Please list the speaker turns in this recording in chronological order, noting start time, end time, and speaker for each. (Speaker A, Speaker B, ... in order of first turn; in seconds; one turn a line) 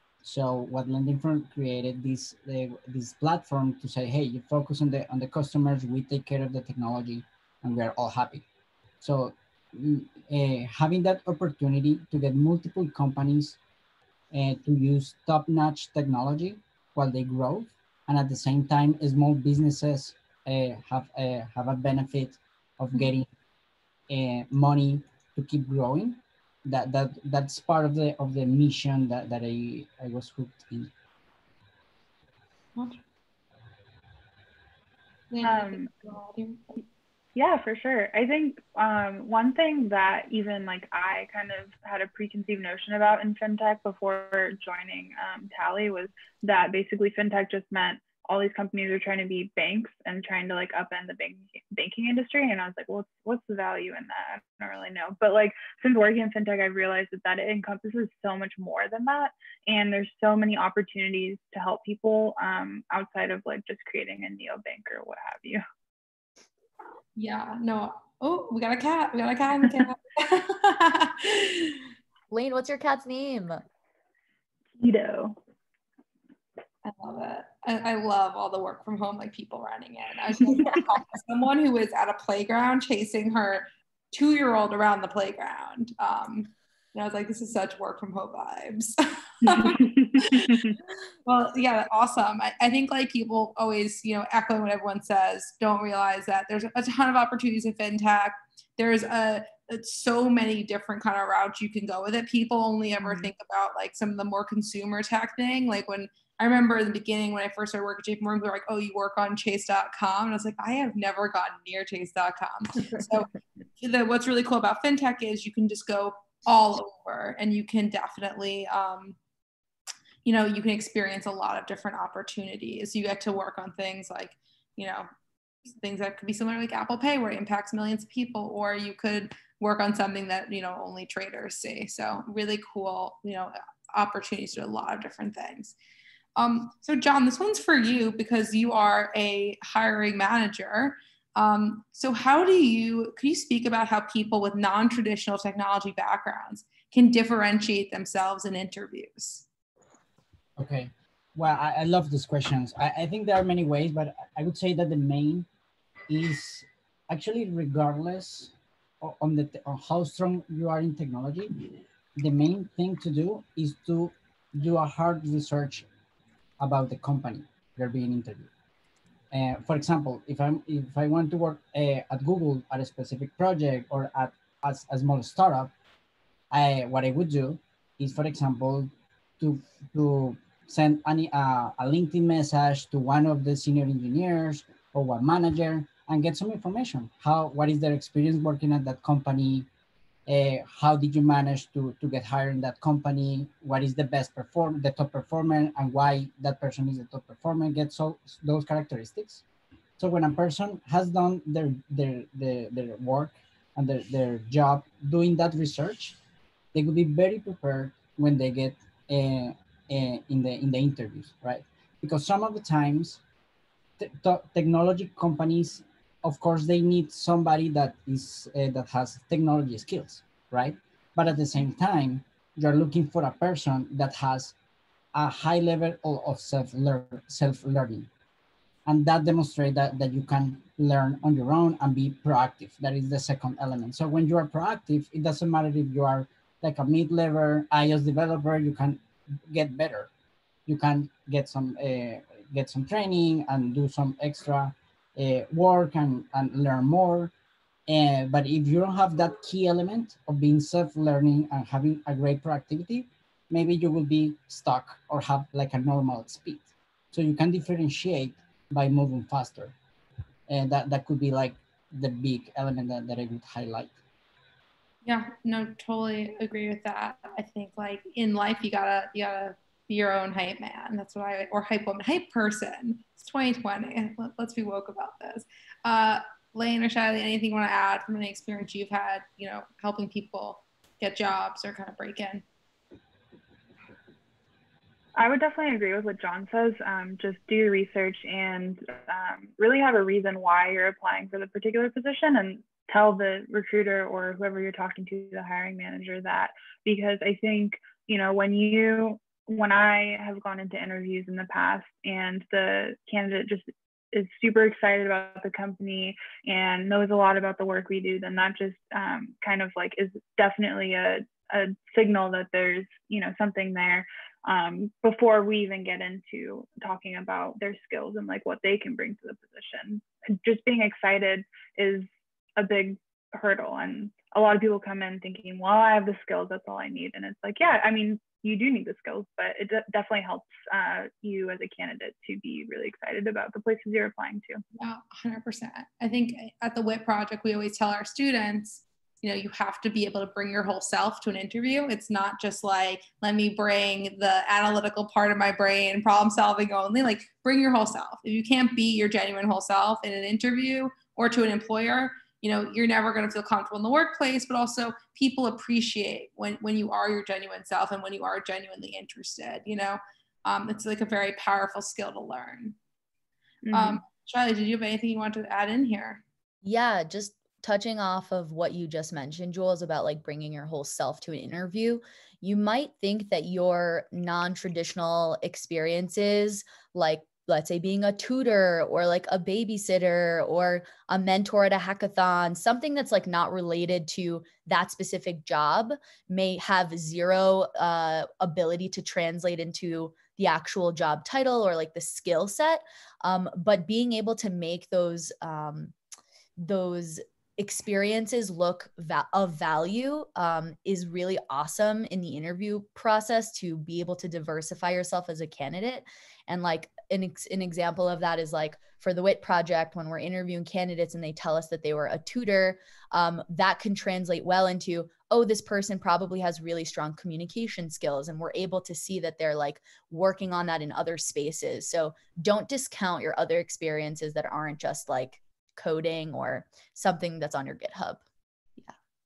Speaker A: 0.2-8.4
Speaker A: 9.0-13.6
Speaker A: 14.3-23.3
Speaker A: 24.1-30.9
Speaker B: 32.8-33.0
Speaker B: 35.3-36.6
Speaker C: 35.4-35.9
Speaker C: 37.4-65.6
Speaker B: 67.2-71.9
Speaker D: 72.3-73.6
Speaker C: 74.8-75.4
Speaker B: 76.8-119.2
Speaker C: 89.5-90.8
Speaker B: 120.2-125.1
Speaker B: 125.7-135.8
Speaker B: 136.4-149.5
Speaker A: 150.6-155.5
Speaker A: 156.1-165.9
Speaker A: 166.6-168.5
Speaker A: 169.3-175.7
Speaker A: 176.5-189.7
Speaker A: 190.3-199.4
Speaker A: 200.0-206.2
Speaker A: 206.7-213.2
Speaker A: 214.0-224.6
Speaker A: 225.1-228.1
Speaker A: 228.9-240.1
Speaker A: 240.7-247.3
Speaker A: 247.9-259.8
Speaker A: 260.5-264.0
Speaker B: 265.0-282.4
Speaker C: 285.2-334.6
Speaker B: 334.8-362.8
Speaker C: 363.6-364.0
Speaker B: 363.7-366.2
Speaker D: 366.6-395.9
Speaker D: 396.6-428.2